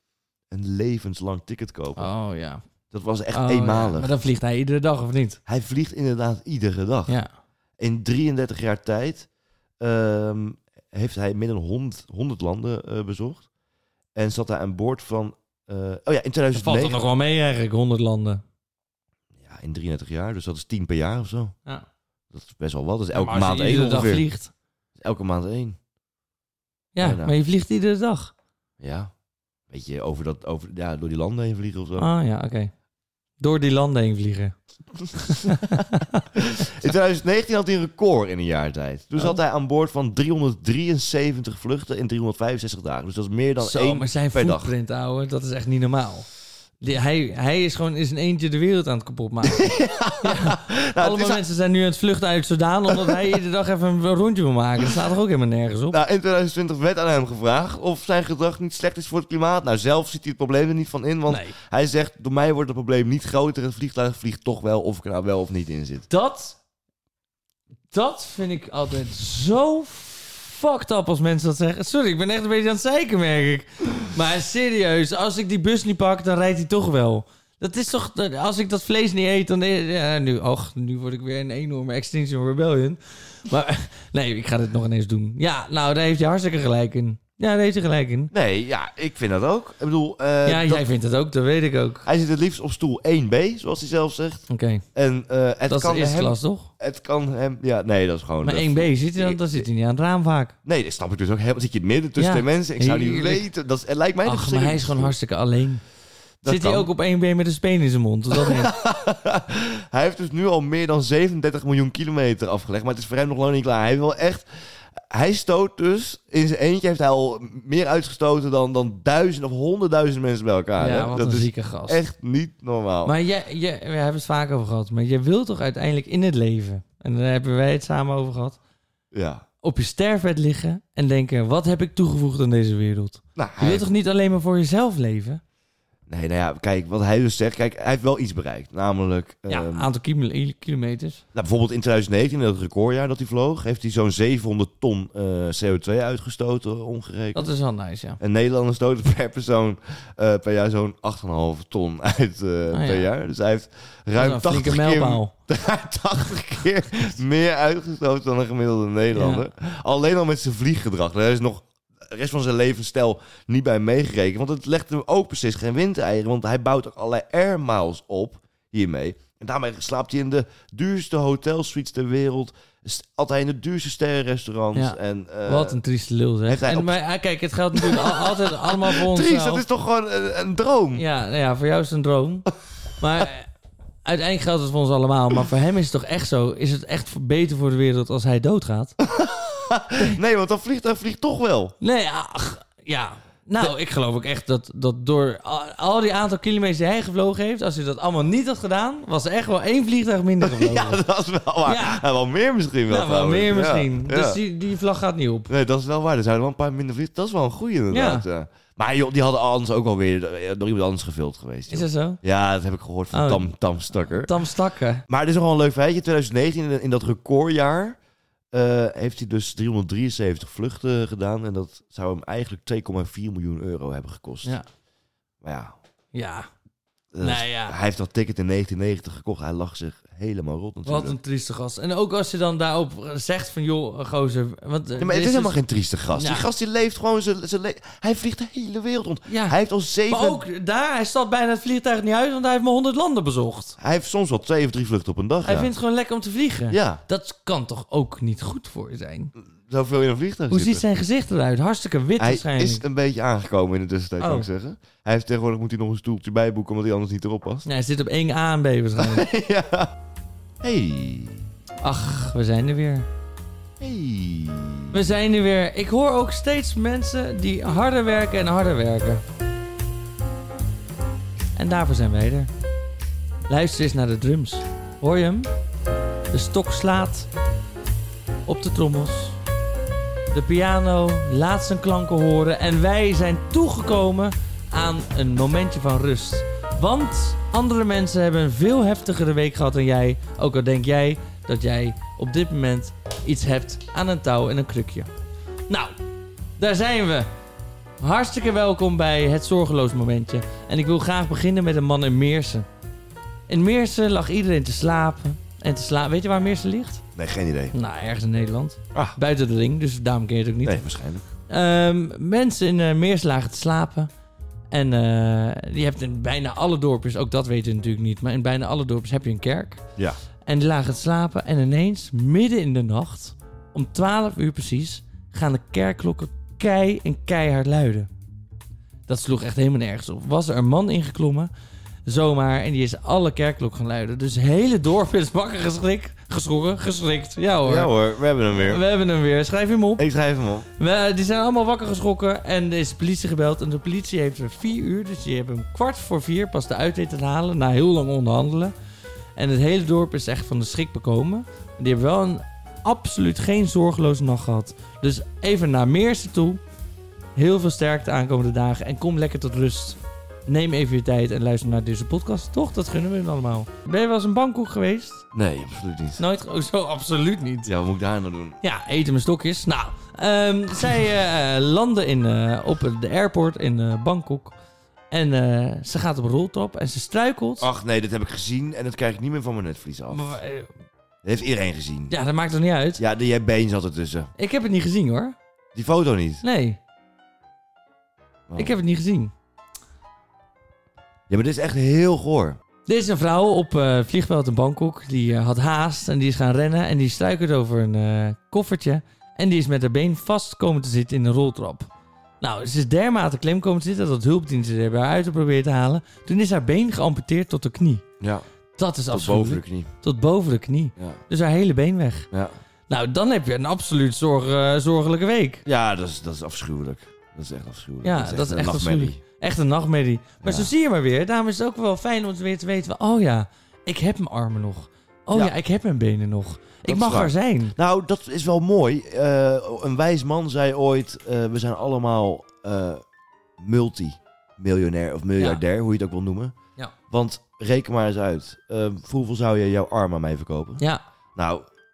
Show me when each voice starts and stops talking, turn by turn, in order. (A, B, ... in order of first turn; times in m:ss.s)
0:00.5-0:02.1 A
0:02.0-0:02.6 B
0:02.9-0:04.1 A
0:03.3-0:05.4 B
0:05.5-0:07.2 A
0:07.8-0:09.3 A
0:09.8-0:13.5 A
0:14.2-0:17.0 A
0:16.5-0:18.4 B
0:19.4-0:21.6 A
0:22.3-0:24.3 A
0:23.1-0:24.5 B
0:25.0-0:25.8 A
0:27.0-0:28.3 B
0:27.0-0:27.3 A
0:28.8-0:29.1 A
0:29.7-0:32.1 A
0:32.0-0:32.7 B
0:33.4-0:34.6 B
0:35.1-0:36.3 B
0:36.4-0:44.7 A
0:43.6-0:46.3 B
0:46.8-0:56.0 B
0:49.5-0:51.4 A
0:52.9-0:53.2 A
0:55.9-1:06.1 A
1:01.3-1:01.6 B
1:06.1-1:06.6 B
1:07.9-1:28.3 B
1:28.3-1:30.9 A
1:30.4-1:32.1 B
1:32.0-1:39.6 A
1:34.5-1:34.8 B
1:35.7-1:36.7 B
1:38.4-1:40.6 B
1:40.6-1:45.2 A
1:42.2-1:43.4 B
1:44.2-1:45.8 B
1:46.4-1:46.9 A
1:46.5-1:48.7 B
1:48.3-1:54.4 A
1:55.1-2:03.1 A
2:00.8-2:02.0 B
2:03.0-2:08.6 B
2:09.1-2:09.4 A
2:09.6-2:15.4 B
2:13.4-2:13.9 A
2:16.1-2:19.9 A
2:19.5-2:21.2 B
2:21.3-2:27.5 A
2:27.3-2:28.2 B
2:28.2-2:55.8 A
2:32.7-2:33.1 B
2:34.2-2:35.3 B
2:39.1-2:39.5 B
2:54.7-2:59.6 B
2:56.5-2:57.0 A
2:57.7-3:01.0 A
3:01.0-3:02.5 B
3:03.0-3:03.5 B
3:04.1-3:09.0 B
3:09.0-3:11.7 A
3:11.8-3:21.0 B
3:20.4-3:24.4 A
3:21.7-3:22.0 B
3:22.9-3:25.5 B
3:25.5-3:34.3 A
3:27.9-3:28.3 B
3:31.7-3:32.2 B
3:33.1-3:35.0 B
3:35.1-3:38.0 A
3:38.5-3:44.6 A
3:45.4-3:45.8 A
3:46.1-3:46.5 B
3:47.1-3:51.2 A
3:47.2-3:47.8 B
3:50.9-3:55.6 B
3:55.0-4:00.4 A
3:56.1-3:56.5 B
3:59.3-3:59.6 B
4:00.1-4:03.8 B
4:03.8-4:05.7 A
4:05.4-4:09.3 B
4:06.7-4:07.0 A
4:09.6-4:10.8 A
4:10.5-4:12.8 B
4:12.2-4:17.7 A
4:14.2-4:14.5 B
4:17.7-4:19.3 B
4:19.0-4:19.9 A
4:20.6-4:21.5 A
4:21.8-4:23.1 B
4:23.8-4:25.0 A
4:24.9-4:29.2 B
4:31.6-4:32.5 B
4:33.5-4:35.5 B
4:36.3-4:37.3 B
4:38.5-4:39.4 B
4:40.3-4:55.1 B
4:55.7-4:56.0 B
4:56.6-4:57.3 B
4:58.0-5:02.7 B
5:03.5-5:07.0 B
5:07.2-5:07.8 A
5:07.7-5:10.8 B
5:10.6-5:11.2 A
5:11.5-5:14.1 B
5:14.7-5:19.8 B
5:20.4-5:28.1 B
5:29.1-5:31.5 B
5:32.1-5:37.9 B
5:37.6-5:38.8 A
5:38.5-5:40.1 B
5:40.0-5:40.7 A
5:40.8-5:48.7 B
5:49.4-5:56.6 B
5:57.4-6:05.2 B
6:05.3-6:06.2 A
6:06.2-6:07.7 B
6:07.7-6:08.6 A
6:08.6-6:14.6 B
6:15.1-6:17.7 B
6:17.6-6:20.3 A
6:20.1-6:20.7 B
6:21.2-6:22.2 A
6:22.1-6:23.0 B
6:23.0-6:24.3 A
6:24.4-6:25.4 B
6:25.8-6:26.4 A
6:26.4-6:26.8 B
6:28.5-6:28.8 A
6:28.6-6:29.3 B
6:31.3-6:32.6 A
6:32.9-6:41.9 B
6:42.4-6:48.0 B
6:48.2-6:48.5 A
6:48.8-6:52.3 B
6:49.1-6:49.9 A
6:52.9-6:55.6 B
6:55.7-6:59.2 A
6:58.0-7:07.8 B
7:00.4-7:00.7 A
7:06.8-7:13.0 A
7:13.6-7:16.6 A
7:15.4-7:15.6 B
7:17.1-7:20.8 A
7:21.4-7:21.7 A